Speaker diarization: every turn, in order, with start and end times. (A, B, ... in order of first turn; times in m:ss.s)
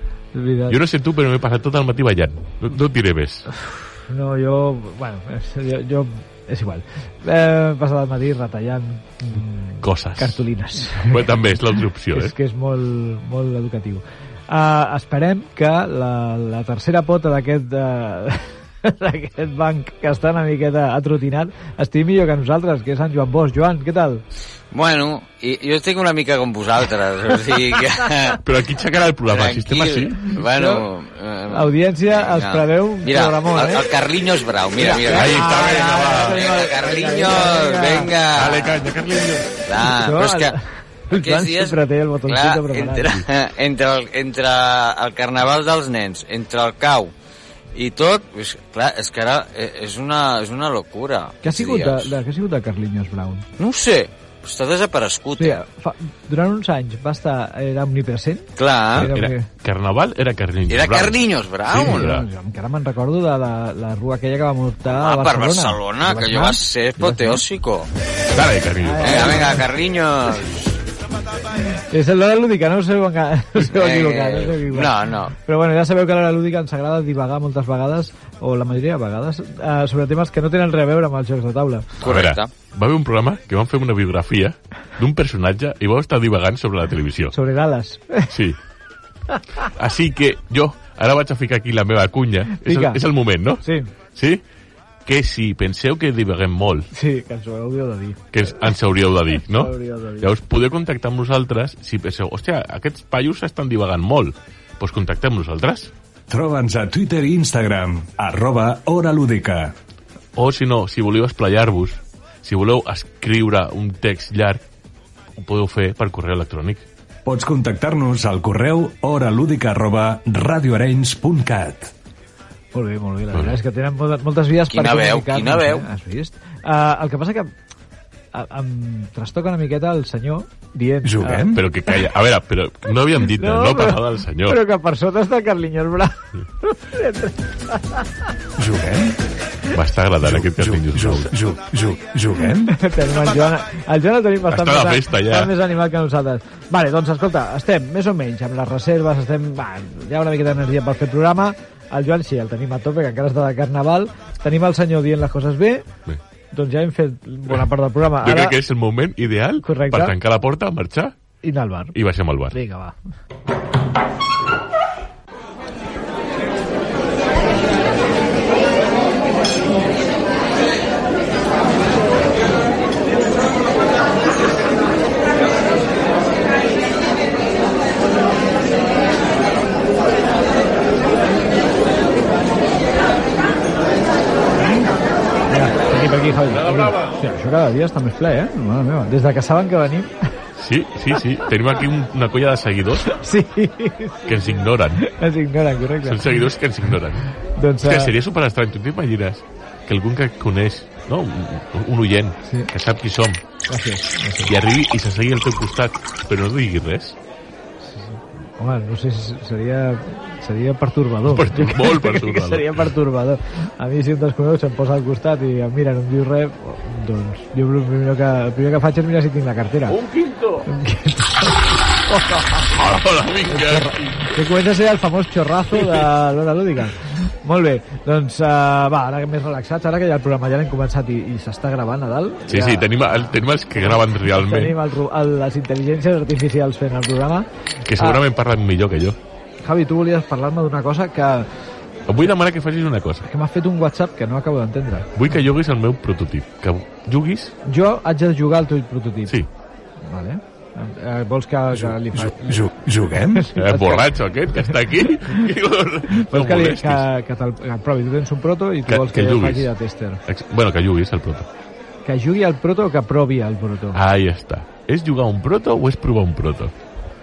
0:00.3-0:00.8 A
0:00.7-0:03.5 B
0:03.5-0:24.2 A
0:09.8-0:10.4 B
0:11.0-0:12.3 B
0:24.7-0:28.4 C
0:28.4-0:30.4 B
0:29.3-0:38.8 C
0:30.4-0:30.8 A
0:31.5-0:33.8 A
0:34.8-0:38.1 A
0:35.0-0:36.4 B
0:38.4-0:39.6 B
0:39.7-0:40.6 C
0:39.8-0:43.2 A
0:41.1-0:47.1 C
0:47.7-0:52.1 C
0:51.4-0:53.4 A
0:53.6-0:55.6 C
0:55.4-0:59.5 A
0:58.6-0:59.1 C
0:59.0-1:02.2 B
1:00.7-1:02.2 C
1:01.8-1:07.4 A
1:04.9-1:07.9 C
1:08.3-1:09.6 B
1:08.8-1:09.7 A
1:09.0-1:10.7 C
1:11.7-1:22.0 A
1:13.7-1:15.3 C
1:22.0-1:22.5 C
1:22.0-1:27.4 B
1:27.3-1:28.4 A
1:28.3-1:28.6 B
1:29.3-1:29.7 A
1:29.6-1:34.4 B
1:32.6-1:33.0 A
1:33.6-1:33.9 A
1:35.1-1:36.9 B
1:36.9-1:38.7 A
1:38.3-1:45.9 B
1:39.4-1:40.3 A
1:46.3-1:49.7 D
1:50.4-1:54.6 B
1:55.4-1:56.8 B
1:57.3-2:01.9 D
2:02.7-2:07.5 A
2:03.3-2:03.6 B
2:04.7-2:05.9 C
2:08.3-2:11.9 A
2:11.0-2:11.6 D
2:11.5-2:14.6 B
2:13.2-2:18.1 A
2:18.6-2:19.2 D
2:19.7-2:21.3 B
2:20.2-2:22.8 D
2:22.7-2:35.9 A
2:24.5-2:25.5 B
2:36.5-2:38.6 A
2:38.2-2:41.2 B
2:39.6-2:40.2 A
2:41.4-2:42.0 A
2:41.9-2:42.6 B
2:42.5-2:43.0 A
3:05.5-3:10.3 A
3:06.6-3:07.1 B
3:10.6-3:13.2 B
3:13.1-3:16.5 A
3:14.3-3:15.1 B
3:16.0-3:17.3 B
3:17.4-3:18.1 A
3:17.8-3:23.4 B
3:23.7-3:24.5 A
3:24.5-3:27.2 B
3:27.8-3:40.0 A
3:31.3-3:32.9 B
3:39.9-3:40.7 B
3:40.7-3:42.7 A
3:42.7-3:44.2 B
3:43.5-3:58.2 A
3:45.8-3:46.1 B
3:52.5-3:54.8 B
3:57.9-3:59.2 B
3:59.6-4:01.5 A
4:02.1-4:03.3 B
4:03.2-4:05.3 A
4:05.2-4:07.6 B
4:07.7-4:09.4 A
4:10.0-4:12.7 A
4:12.2-4:13.5 D
4:13.3-4:14.1 A
4:13.6-4:17.1 B
4:16.1-4:20.2 A
4:18.9-4:19.7 B
4:20.3-4:21.5 B
4:22.1-4:24.0 A
4:23.9-4:26.7 B